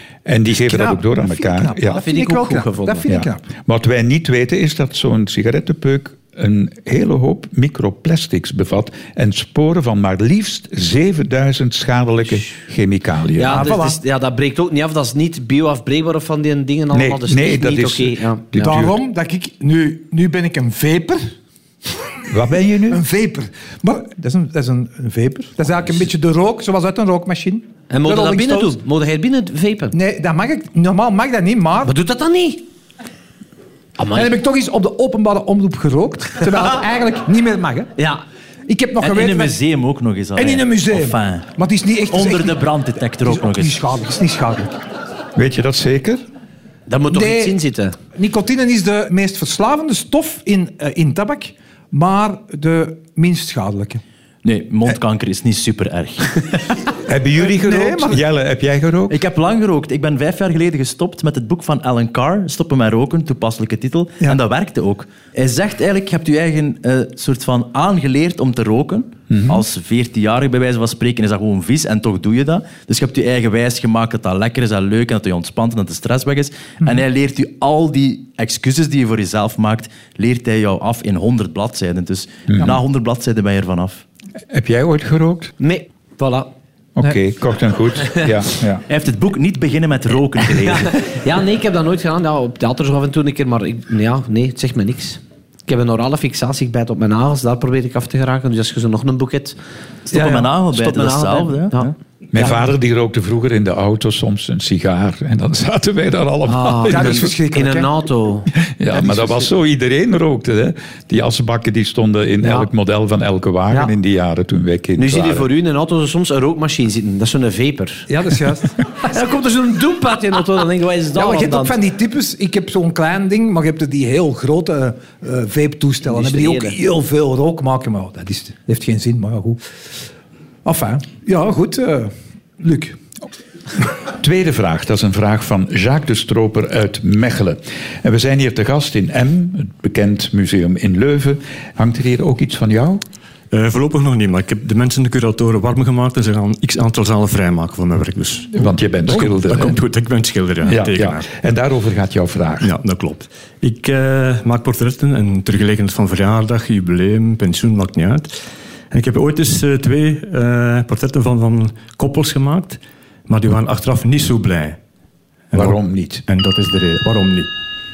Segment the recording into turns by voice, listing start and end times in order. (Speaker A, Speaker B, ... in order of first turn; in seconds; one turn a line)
Speaker A: 0.3-2.0
Speaker B: 0.5-3.5
Speaker C: 1.9-3.0
Speaker A: 3.1-13.7
Speaker C: 13.3-18.4
Speaker B: 13.5-14.0
Speaker A: 16.9-19.0
Speaker B: 18.6-21.3
Speaker A: 22.3-23.0
Speaker B: 22.9-28.8
Speaker C: 27.9-29.9
Speaker B: 29.9-31.9
Speaker C: 31.8-32.6
Speaker C: 34.0-34.4
Speaker B: 34.1-37.9
Speaker C: 38.0-38.2
Speaker B: 38.7-39.5
Speaker D: 39.0-41.5
Speaker B: 40.4-42.7
Speaker D: 42.1-43.8
Speaker B: 43.2-44.7
Speaker A: 45.4-46.2
Speaker C: 46.9-48.0
Speaker B: 47.1-47.5
Speaker B: 48.1-54.0
Speaker D: 54.4-56.5
Speaker A: 57.1-59.2
Speaker B: 57.5-58.2
Speaker D: 59.1-84.0
Speaker A: 69.3-69.6
Speaker A: 82.5-82.8
Speaker A: 84.5-85.5
Speaker C: 85.6-86.5
Speaker A: 87.0-88.8
Speaker D: 88.9-91.0
Speaker C: 90.5-99.6
Speaker D: 100.1-102.0
Speaker C: 100.1-102.6
Speaker B: 100.1-100.4
Speaker A: 102.3-107.3
Speaker C: 106.5-109.3
Speaker B: 106.9-107.9
Speaker A: 108.6-115.5
Speaker C: 112.4-112.7
Speaker C: 115.0-118.1
Speaker B: 118.1-118.8
Speaker C: 119.0-121.8
Speaker B: 121.2-129.6
Speaker C: 126.0-126.8
Speaker B: 130.7-133.0
Speaker A: 134.2-143.0
Speaker E: 143.5-151.3
Speaker A: 148.5-149.8
Speaker A: 150.7-152.7
Speaker E: 152.6-158.3
Speaker E: 158.9-164.8
Speaker E: 165.5-167.5
Speaker A: 165.5-166.2